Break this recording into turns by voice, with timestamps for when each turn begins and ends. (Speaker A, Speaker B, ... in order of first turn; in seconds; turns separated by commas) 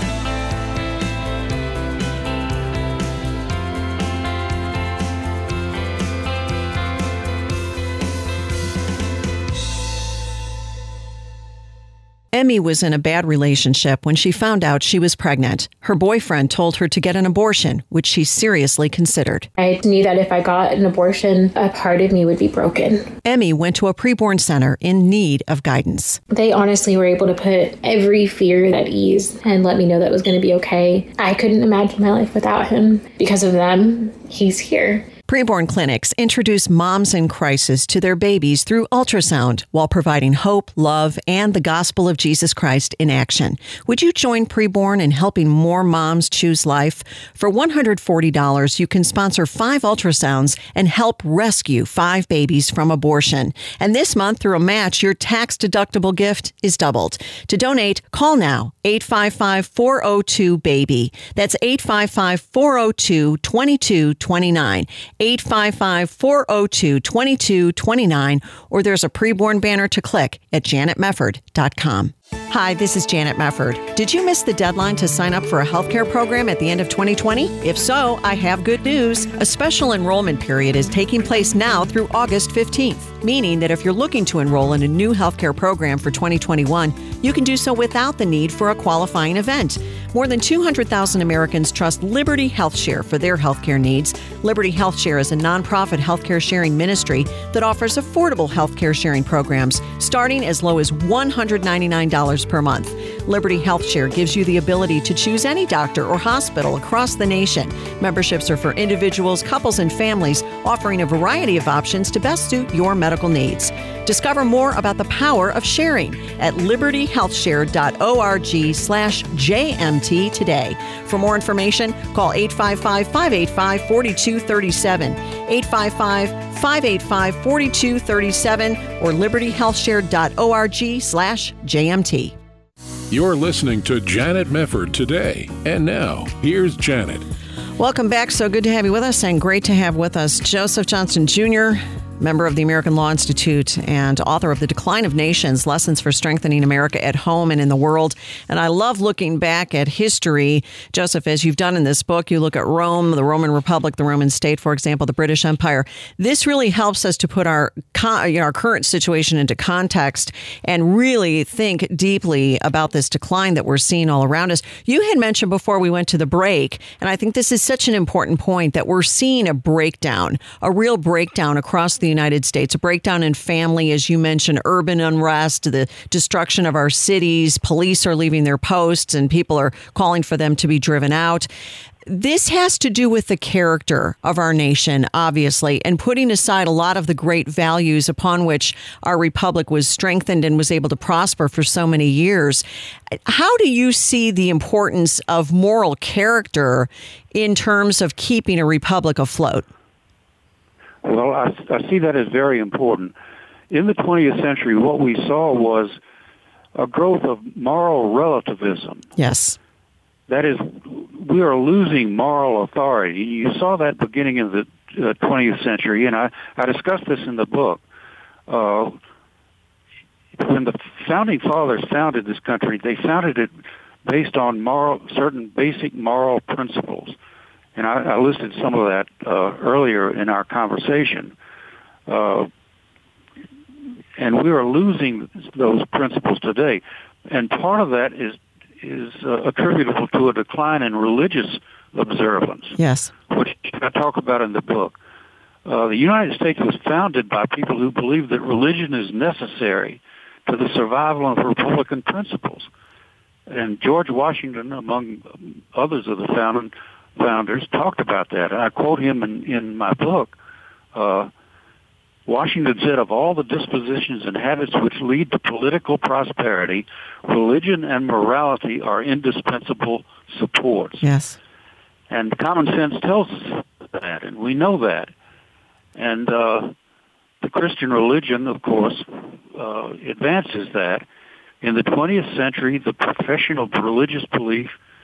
Speaker A: 12.3-19.5, Speaker B: 19.6-23.1, Speaker A: 23.2-26.2, Speaker B: 26.3-35.1, Speaker A: 35.3-132.3, Speaker C: 133.1-137.2, Speaker A: 137.8-181.5, Speaker A: 182.1-199.7, Speaker D: 201.0-203.1, Speaker D: 203.7-206.0, Speaker D: 206.7-209.1, Speaker A: 209.2-209.6, Speaker D: 210.3-217.8, Speaker D: 218.5-219.0, Speaker D: 220.3-223.5, Speaker D: 224.0-227.2, Speaker D: 227.7-231.3, Speaker D: 232.1-232.5, Speaker D: 234.2-242.8, Speaker A: 242.8-243.1, Speaker D: 243.3-245.0, Speaker D: 245.6-252.7, Speaker D: 253.5-260.4, Speaker D: 260.9-261.3, Speaker D: 262.2-271.0, Speaker A: 271.0-271.4, Speaker D: 272.1-275.1, Speaker D: 275.9-276.7, Speaker D: 277.4-281.0, Speaker D: 281.6-284.8